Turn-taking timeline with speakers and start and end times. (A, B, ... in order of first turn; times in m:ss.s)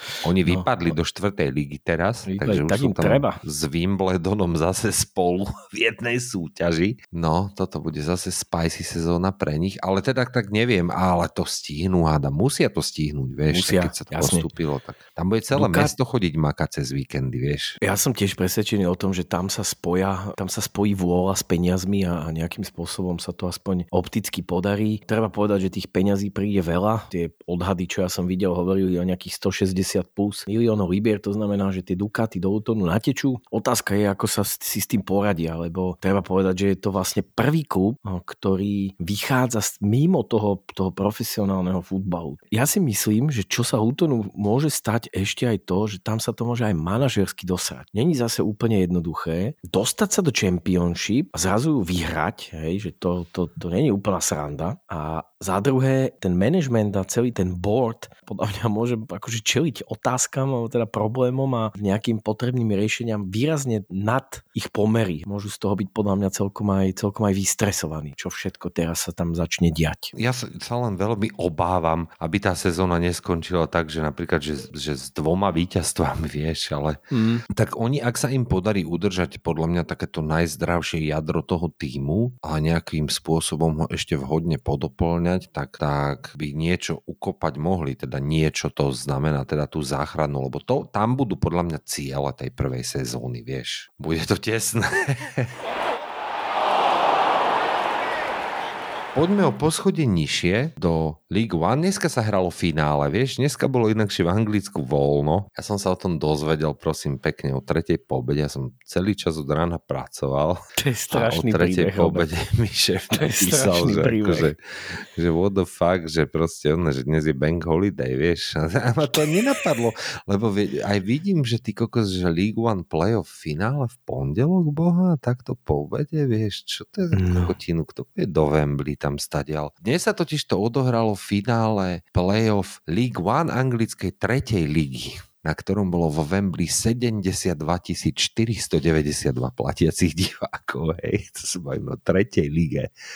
0:00.2-0:17.8 A
0:02.3-0:03.4 B
0:13.5-0:14.5 B
0:15.5-0:15.9 B
0:17.8-1:10.1 B
1:10.1-1:35.5 A
1:17.1-1:17.4 B
1:39.2-2:22.9 A
1:50.8-1:52.3 B
1:53.1-1:54.5 B
2:07.1-2:07.5 B